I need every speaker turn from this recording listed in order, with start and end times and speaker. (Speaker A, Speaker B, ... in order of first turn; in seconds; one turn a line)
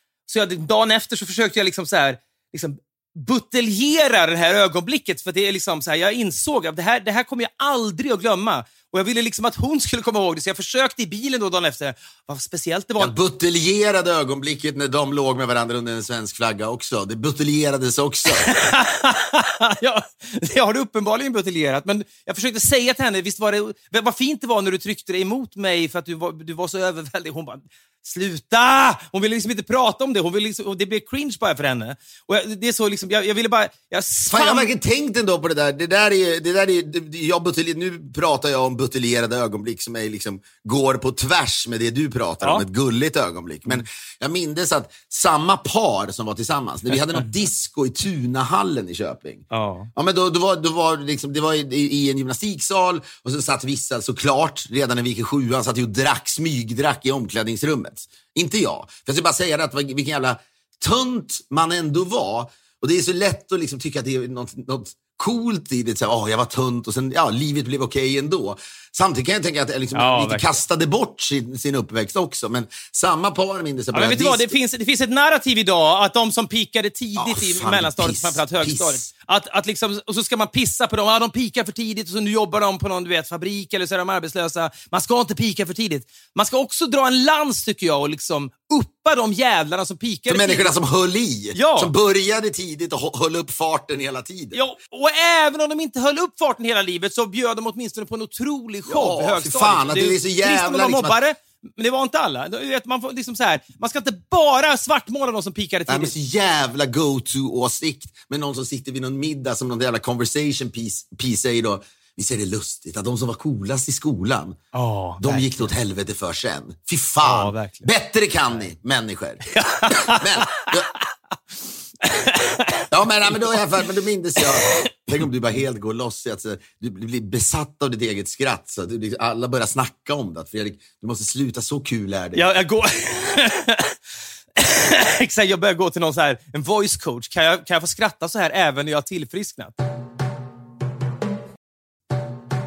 Speaker A: 0.3-13.1
Speaker B: 13.0-18.5
Speaker A: 18.4-34.7
Speaker B: 34.3-74.5
Speaker A: 49.5-49.9
Speaker A: 69.9-70.6
Speaker A: 73.9-90.7
Speaker B: 77.2-79.1
Speaker B: 90.3-94.6
Speaker A: 91.5-91.9
Speaker A: 94.5-106.1
Speaker B: 98.9-101.2
Speaker B: 105.9-114.6
Speaker A: 114.7-115.6
Speaker B: 115.2-120.9
Speaker A: 117.2-117.9
Speaker A: 119.5-120.7
Speaker A: 122.0-122.9
Speaker B: 122.9-132.4
Speaker A: 132.3-133.9
Speaker A: 134.6-139.8